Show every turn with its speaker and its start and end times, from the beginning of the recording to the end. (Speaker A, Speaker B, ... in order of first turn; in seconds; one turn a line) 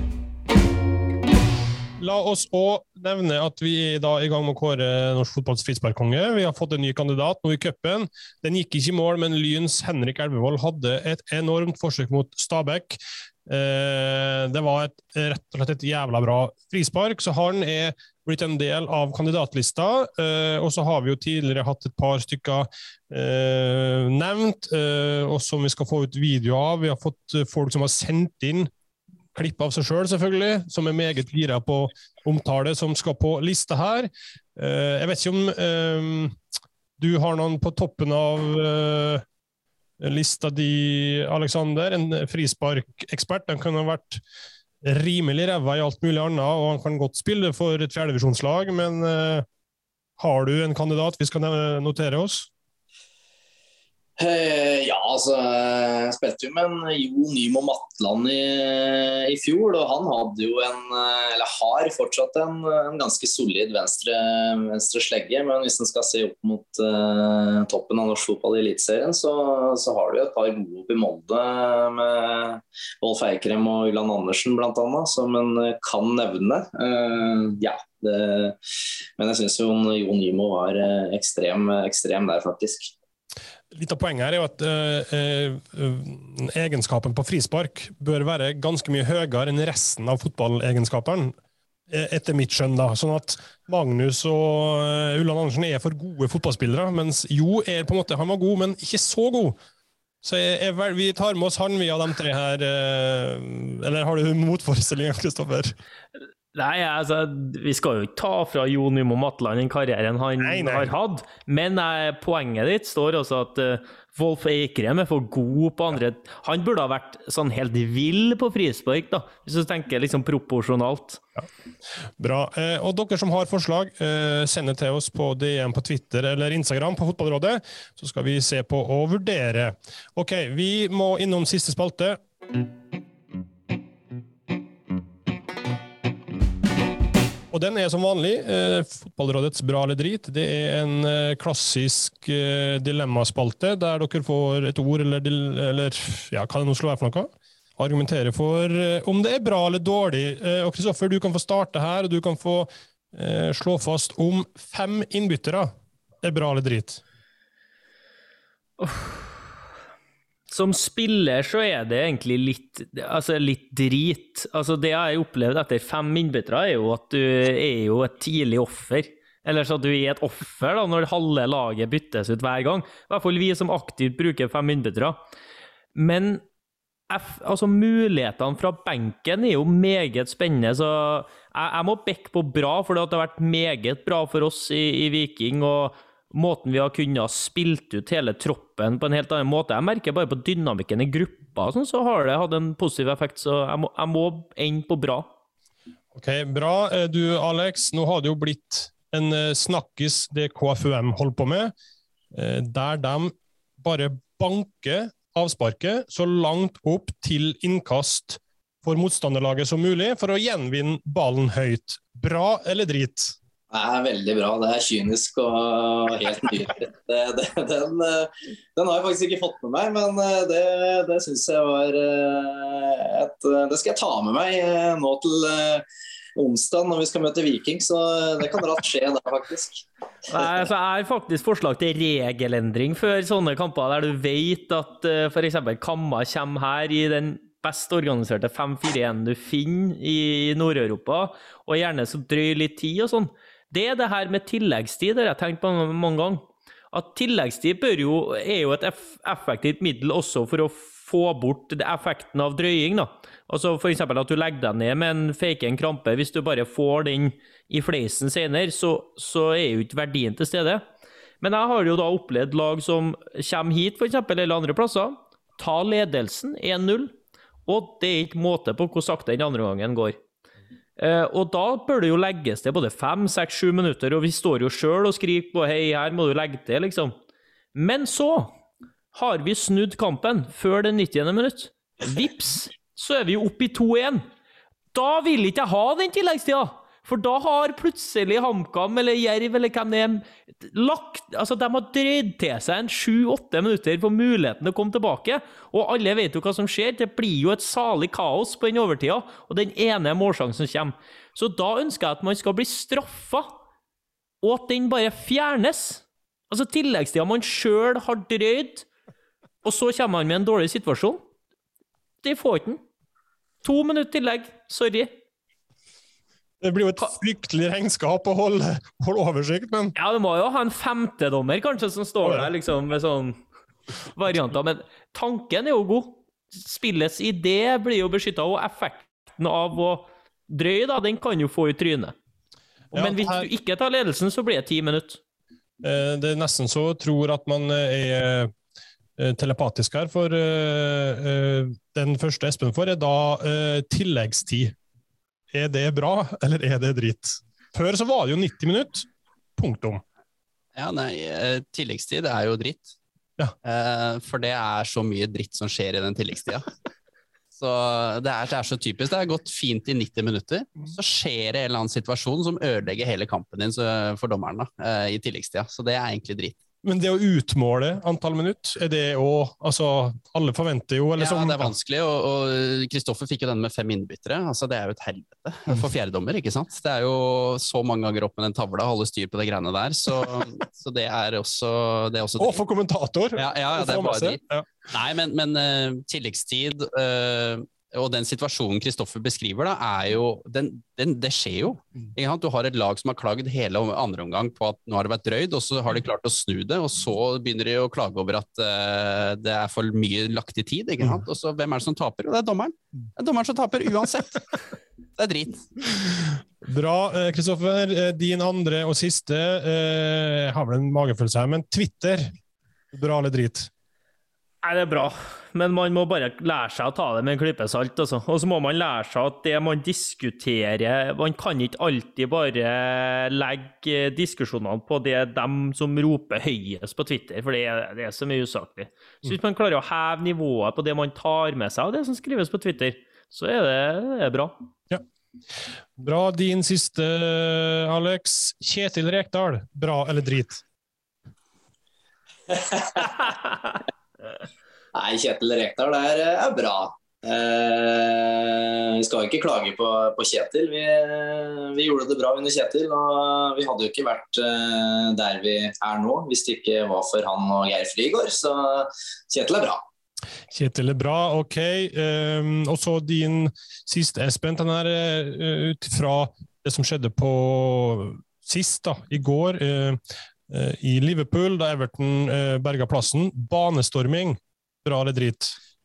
Speaker A: 2.0-28.7
Speaker A: 29.3-36.4
Speaker A: 37.0-39.2
Speaker A: 40.0-44.2
Speaker A: 44.8-49.5
Speaker A: 50.2-52.5
Speaker B: 54.2-78.6
Speaker B: 79.2-82.9
Speaker A: 83.7-91.3
Speaker A: 91.9-99.6
Speaker A: 100.2-105.7
Speaker C: 106.5-121.2
Speaker A: 110.4-110.9
Speaker A: 122.2-132.2
Speaker A: 137.5-157.0
Speaker C: 158.8-159.4
Speaker C: 160.5-175.2
Speaker C: 175.9-176.4
Speaker C: 177.1-195.3
Speaker A: 196.1-201.7
Speaker A: 202.3-213.3
Speaker B: 213.7-225.8
Speaker B: 226.4-230.5
Speaker C: 230.3-260.8
Speaker C: 261.4-267.1
Speaker C: 267.7-270.2
Speaker C: 271.0-277.1
Speaker C: 277.7-278.5
Speaker C: 279.1-284.2
Speaker C: 284.9-303.5
Speaker C: 304.4-308.9
Speaker C: 309.6-311.2
Speaker C: 312.2-312.8
Speaker C: 313.6-315.1
Speaker A: 316.6-319.9
Speaker C: 319.9-323.4
Speaker C: 324.1-332.1
Speaker A: 332.9-333.5
Speaker C: 332.9-335.2
Speaker A: 335.8-338.5
Speaker A: 339.2-344.7
Speaker A: 345.5-350.0
Speaker D: 350.7-352.9
Speaker D: 353.6-356.7
Speaker D: 357.5-366.6
Speaker A: 366.8-371.7
Speaker D: 371.1-382.6
Speaker A: 382.4-384.7
Speaker D: 383.4-404.4
Speaker D: 405.1-406.0
Speaker A: 406.6-412.3
Speaker A: 412.9-413.7
Speaker C: 414.6-434.5
Speaker A: 436.0-440.6
Speaker B: 442.5-443.1
Speaker B: 444.9-459.8
Speaker A: 460.5-475.6